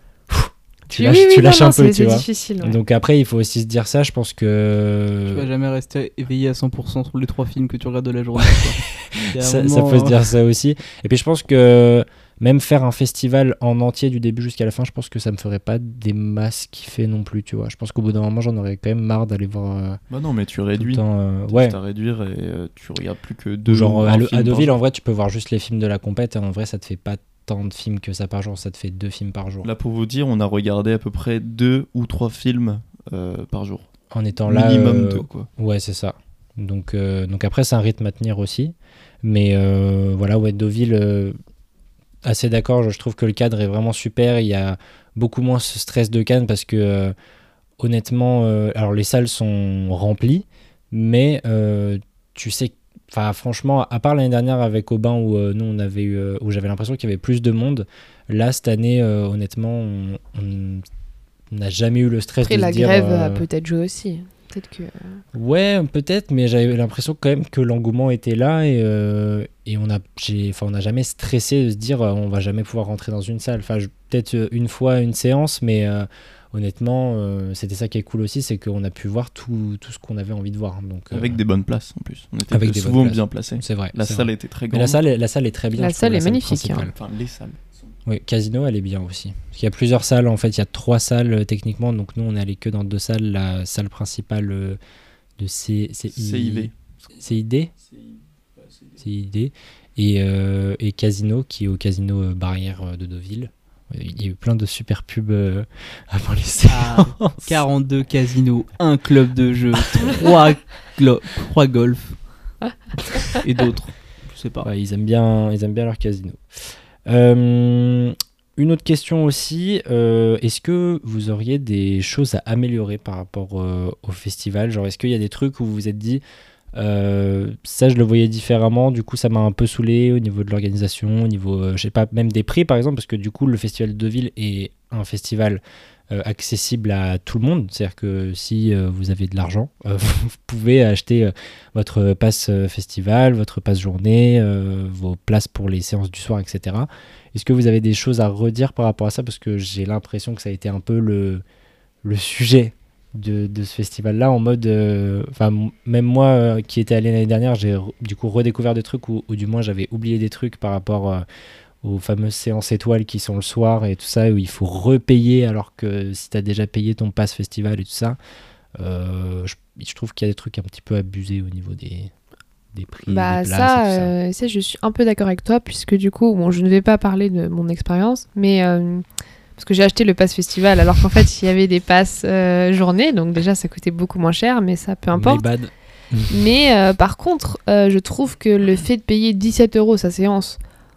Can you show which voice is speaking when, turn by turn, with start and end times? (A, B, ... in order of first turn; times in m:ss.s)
0:00.3-0:05.5 A
0:00.9-0:02.8 B
0:05.3-0:10.3 C
0:09.2-0:20.0 A
0:20.1-0:24.8 D
0:20.8-0:21.8 A
0:23.6-0:29.7 A
0:29.6-0:33.8 D
0:34.1-0:41.4 A
0:34.5-0:35.5 D
0:42.2-0:47.1 A
0:47.8-1:00.8 A
1:01.5-1:03.4 A
1:02.4-1:05.2 B
1:05.3-1:21.4 A
1:21.1-1:25.0 D
1:22.5-1:26.9 A
1:25.8-1:26.9 B
1:26.9-1:27.9 D
1:28.0-1:34.8 A
1:35.4-1:37.7 A
1:36.1-1:36.8 D
1:38.6-1:39.0 D
1:39.0-1:47.6 A
1:46.7-1:52.2 C
1:53.3-1:54.7 C
1:54.6-2:06.2 A
2:06.8-2:31.4 A
2:32.0-2:41.2 A
2:41.8-2:48.2 A
2:48.8-2:52.1 A
2:52.7-2:54.1 A
2:53.1-2:59.0 B
2:59.6-3:05.4 B
3:05.1-3:06.4 A
3:06.3-3:10.6 B